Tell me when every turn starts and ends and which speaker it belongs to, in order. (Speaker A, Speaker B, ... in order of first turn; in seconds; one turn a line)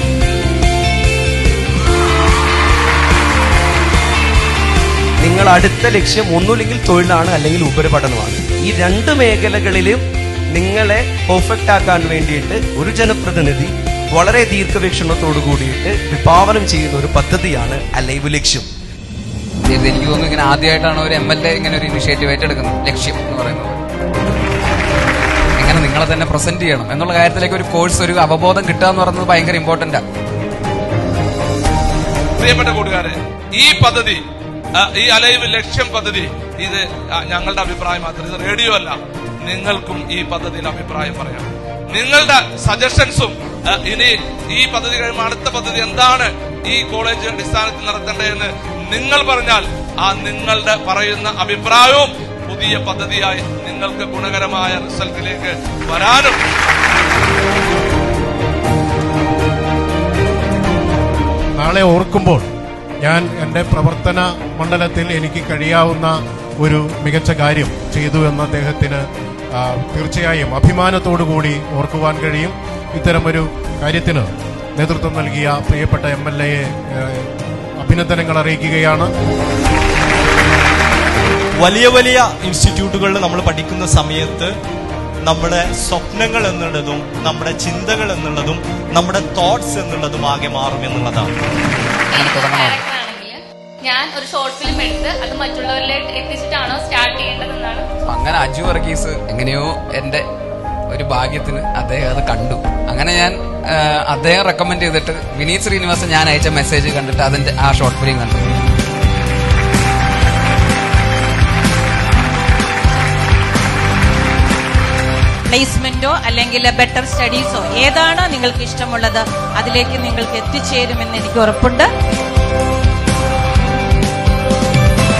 Speaker A: 5.2-18.7
Speaker B: 19.7-23.8
Speaker B: 25.6-30.0
Speaker C: 32.4-34.2
Speaker C: 34.8-56.4
Speaker D: 61.6-62.5
Speaker D: 63.0-77.3
Speaker D: 77.8-79.1
Speaker E: 81.6-84.5
Speaker E: 85.2-91.3
Speaker F: 92.1-97.8
Speaker B: 92.1-92.8
Speaker B: 98.1-100.2
Speaker B: 100.9-108.5
Speaker G: 115.5-121.9